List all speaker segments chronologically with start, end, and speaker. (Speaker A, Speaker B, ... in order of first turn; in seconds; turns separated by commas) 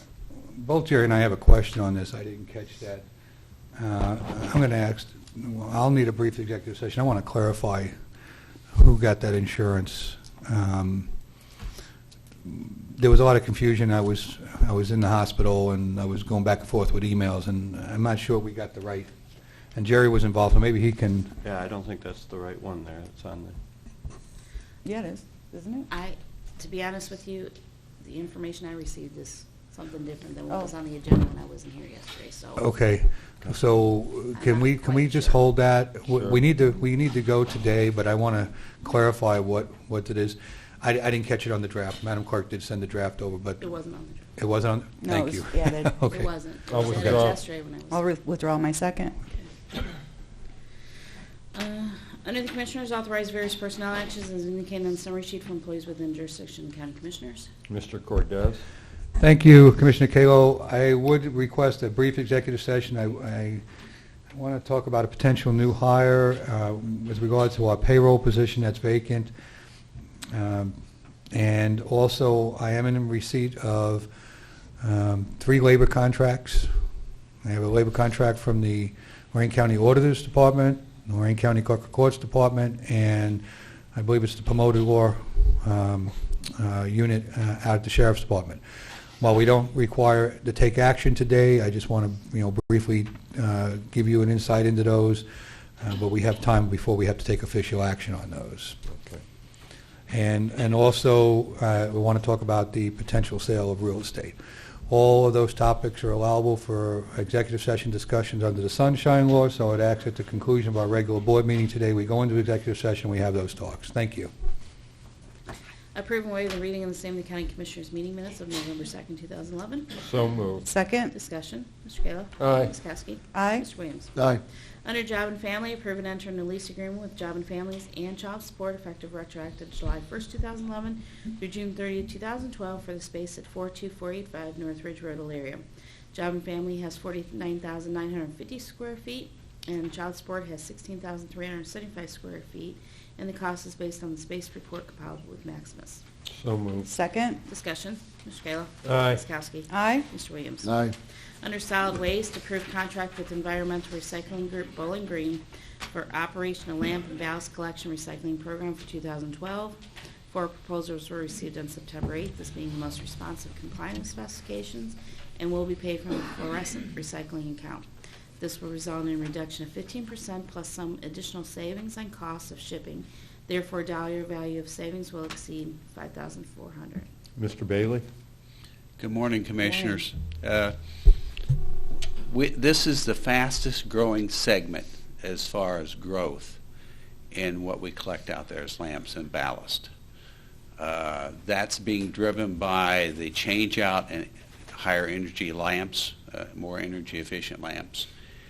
Speaker A: 0.3-3.0, Speaker A: 3.8-7.9, Speaker A: 8.7-11.1, Speaker A: 12.4-19.1, Speaker A: 19.7-21.3, Speaker B: 21.4-23.6, Speaker C: 24.8-25.9, Speaker D: 25.9-32.6, Speaker A: 32.5-43.6, Speaker D: 34.3-35.5, Speaker D: 43.6-44.3, Speaker A: 44.4-46.3, Speaker C: 45.0-46.0, Speaker D: 46.1-48.0, Speaker E: 46.7-47.4, Speaker C: 47.9-49.2, Speaker D: 51.5-57.5, Speaker E: 57.7-58.6, Speaker A: 59.2-63.6, Speaker A: 64.3-69.3, Speaker A: 70.3-70.7, Speaker A: 71.3-74.1, Speaker A: 74.8-76.7, Speaker A: 77.4-88.6, Speaker A: 89.2-95.2, Speaker A: 95.8-98.8, Speaker E: 98.9-99.2, Speaker A: 100.1-104.3, Speaker A: 104.9-114.3, Speaker D: 115.9-120.0, Speaker E: 120.0-120.7, Speaker C: 120.6-121.1, Speaker D: 121.1-146.0, Speaker E: 122.4-122.7, Speaker C: 123.3-123.7, Speaker E: 146.3-146.9, Speaker C: 146.8-147.4, Speaker D: 147.4-167.9, Speaker E: 148.8-149.2, Speaker C: 149.7-150.0, Speaker D: 168.4-177.1, Speaker E: 177.4-178.0, Speaker F: 179.0-180.7, Speaker D: 179.6-180.0, Speaker F: 182.3-186.6, Speaker F: 187.3-189.9, Speaker F: 190.8-198.1